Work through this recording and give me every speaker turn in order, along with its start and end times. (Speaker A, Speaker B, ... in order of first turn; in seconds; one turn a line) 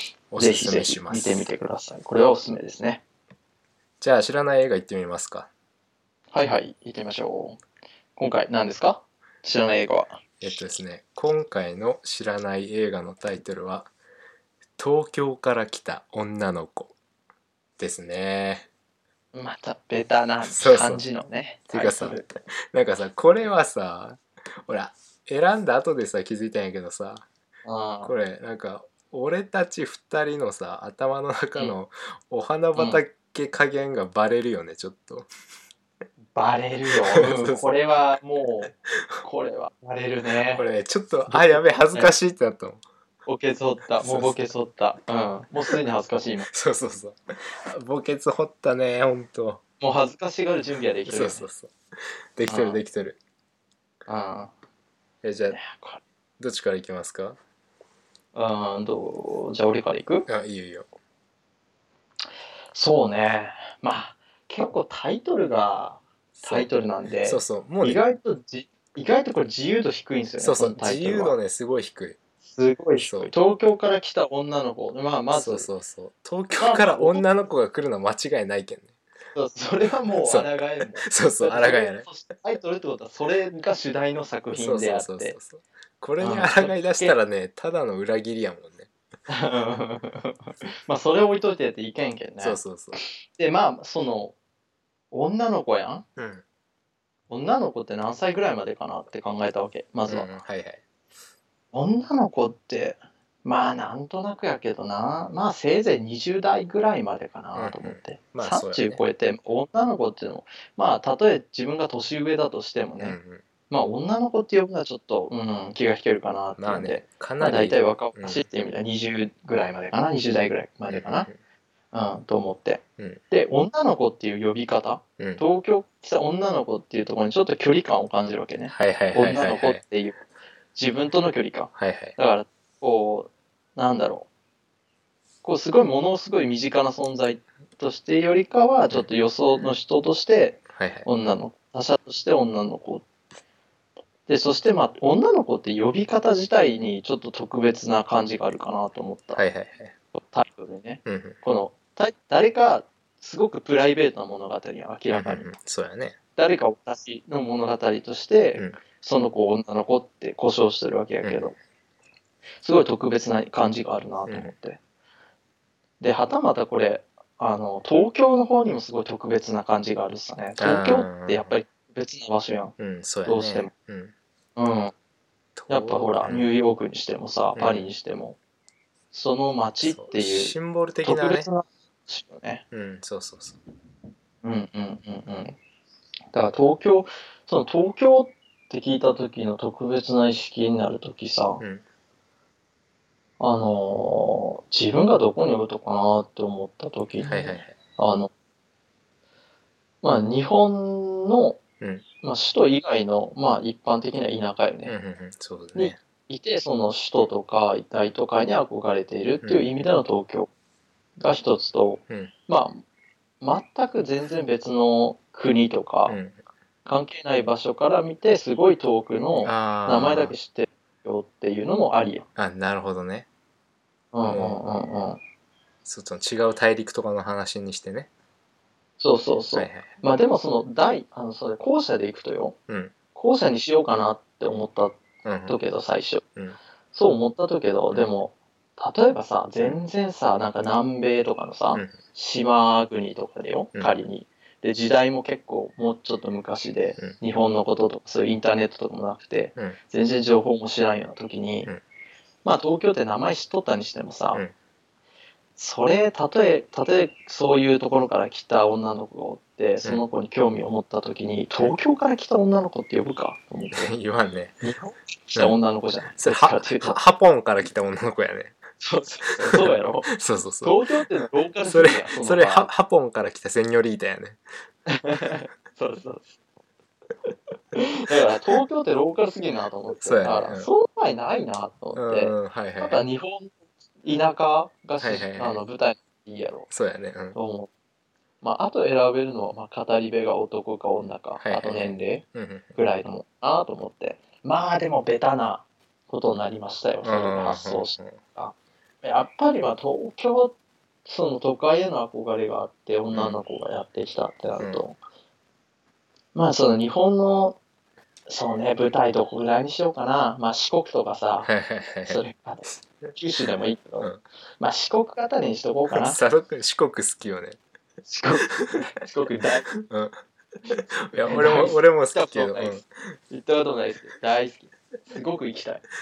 Speaker A: 0.3-1.5
Speaker B: 0.4-3.0
Speaker A: 4.0-5.5
Speaker B: 6.3-7.6
Speaker B: 8.2-10.2
Speaker A: 10.4-13.9
Speaker A: 14.8-16.9
Speaker A: 17.8-18.7
Speaker B: 19.3-22.3
Speaker A: 20.4-21.0
Speaker A: 21.7-27.2
Speaker B: 27.6-28.1
Speaker A: 28.0-35.3
Speaker B: 36.3-40.6
Speaker A: 37.1-37.7
Speaker A: 40.5-42.8
Speaker B: 41.3-42.1
Speaker B: 43.2-46.5
Speaker A: 44.0-44.5
Speaker A: 46.5-49.6
Speaker B: 49.8-51.5
Speaker A: 51.1-51.7
Speaker A: 52.4-53.2
Speaker B: 52.5-52.8
Speaker B: 54.1-54.5
Speaker A: 55.2-55.6
Speaker B: 55.5-56.0
Speaker A: 56.4-57.4
Speaker B: 58.3-60.3
Speaker A: 60.3-60.9
Speaker B: 62.7-71.3
Speaker A: 66.4-66.7
Speaker A: 67.2-68.0
Speaker A: 70.4-72.2
Speaker B: 72.5-75.7
Speaker A: 73.0-73.3
Speaker A: 75.3-78.9
Speaker B: 76.6-77.2
Speaker B: 79.3-85.3
Speaker A: 80.2-82.1
Speaker A: 84.5-88.9
Speaker B: 86.2-87.1
Speaker B: 89.3-92.6
Speaker A: 92.4-93.0
Speaker B: 93.3-94.3
Speaker B: 95.1-96.0
Speaker A: 96.2-96.4
Speaker B: 97.3-100.3
Speaker A: 100.1-100.8
Speaker B: 101.7-113.2
Speaker A: 107.5-109.0
Speaker A: 113.0-113.4
Speaker B: 113.7-121.3
Speaker A: 116.6-118.4
Speaker A: 120.9-121.3
Speaker B: 121.9-130.2
Speaker A: 128.7-129.8
Speaker B: 130.7-134.3
Speaker A: 131.8-132.2
Speaker B: 135.4-143.0
Speaker A: 140.7-141.1
Speaker B: 144.3-149.4
Speaker A: 149.3-149.9
Speaker B: 150.1-155.5
Speaker A: 151.1-151.4
Speaker A: 155.1-156.2
Speaker B: 156.3-161.5
Speaker A: 158.6-158.8
Speaker A: 161.2-161.5
Speaker B: 162.6-164.8
Speaker A: 164.3-164.5
Speaker B: 166.0-172.7
Speaker A: 170.6-171.6
Speaker A: 172.8-174.1
Speaker B: 173.2-173.7
Speaker B: 174.6-174.9
Speaker A: 175.6-176.5
Speaker B: 175.7-178.4
Speaker A: 177.6-177.9
Speaker B: 179.1-182.6
Speaker A: 179.8-181.5
Speaker A: 182.7-183.6
Speaker B: 184.4-185.6
Speaker B: 186.3-191.6
Speaker B: 193.4-198.3
Speaker A: 197.2-197.8
Speaker B: 200.0-201.6
Speaker A: 201.8-202.0
Speaker B: 202.2-204.9
Speaker A: 204.9-206.0
Speaker B: 205.7-210.5
Speaker A: 209.4-209.7
Speaker B: 211.2-212.8
Speaker B: 213.4-216.2
Speaker A: 216.1-216.3
Speaker B: 216.8-222.2
Speaker A: 219.4-220.3
Speaker A: 222.3-223.3
Speaker B: 224.1-225.2
Speaker A: 224.2-224.6
Speaker A: 225.8-228.1
Speaker B: 229.0-232.6
Speaker A: 229.5-229.9
Speaker A: 232.7-232.9
Speaker B: 233.1-236.2
Speaker A: 235.2-235.6
Speaker B: 236.9-251.7
Speaker B: 252.4-254.4
Speaker B: 255.6-263.9
Speaker A: 263.7-264.6
Speaker B: 264.6-267.0
Speaker A: 266.1-268.6
Speaker B: 268.8-272.7
Speaker A: 269.5-270.8
Speaker A: 271.6-274.4
Speaker B: 274.9-276.2
Speaker B: 277.7-286.7
Speaker A: 279.9-280.7
Speaker A: 281.9-283.0
Speaker A: 285.0-285.6
Speaker A: 286.7-287.4
Speaker B: 287.4-287.7
Speaker B: 288.4-305.0
Speaker A: 291.4-292.7
Speaker A: 297.0-298.2
Speaker A: 303.1-303.4
Speaker B: 306.3-307.6
Speaker B: 308.3-311.5
Speaker A: 311.4-312.2
Speaker B: 312.0-316.2
Speaker A: 315.9-317.6
Speaker B: 318.1-319.7
Speaker A: 319.8-320.2
Speaker A: 320.7-323.1
Speaker B: 321.3-322.8
Speaker B: 323.3-325.9